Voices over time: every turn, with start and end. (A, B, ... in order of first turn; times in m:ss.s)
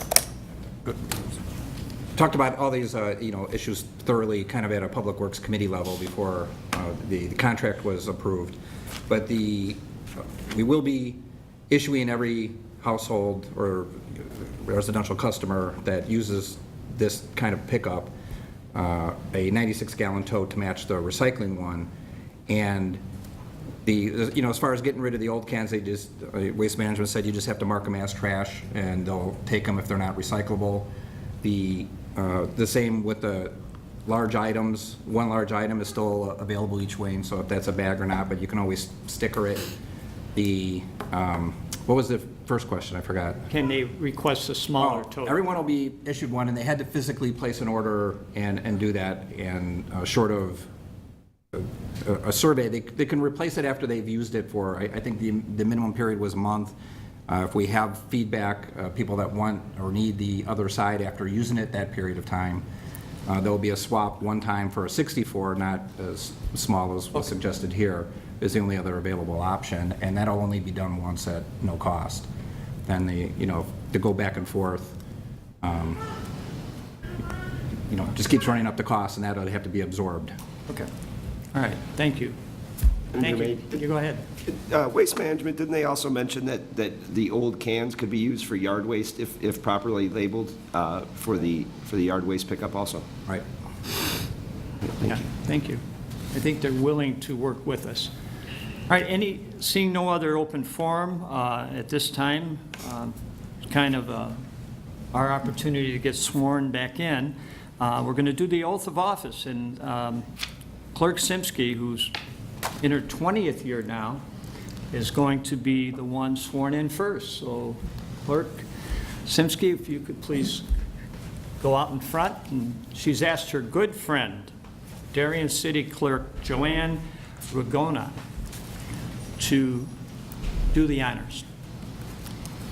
0:02.1-0:18.1 A
0:18.7-0:21.9 A
0:22.5-0:23.0 A
0:23.8-0:30.9 A
0:31.4-0:33.5 A
0:34.0-0:39.7 A
0:40.3-0:43.4 A
0:43.5-0:45.4 B
0:44.8-0:50.7 A
0:51.5-0:56.7 A
0:57.3-1:02.6 A
1:03.2-1:12.3 A
1:12.8-1:15.0 A
1:15.6-1:16.0 A
1:17.9-1:20.3 A
1:21.5-1:22.4 B
1:23.1-1:23.7 C
1:23.2-1:24.2 B
1:24.5-1:33.0 C
1:35.0-1:38.1 B
1:38.9-1:44.4 B
1:45.1-1:50.2 B
1:50.9-1:52.1 B
1:52.8-1:54.2 B
1:54.9-1:58.6 B
1:59.2-2:00.6 B
2:01.6-2:04.5 B
2:05.1-2:08.1 B
2:09.4-2:09.9 B
2:10.7-2:11.4 B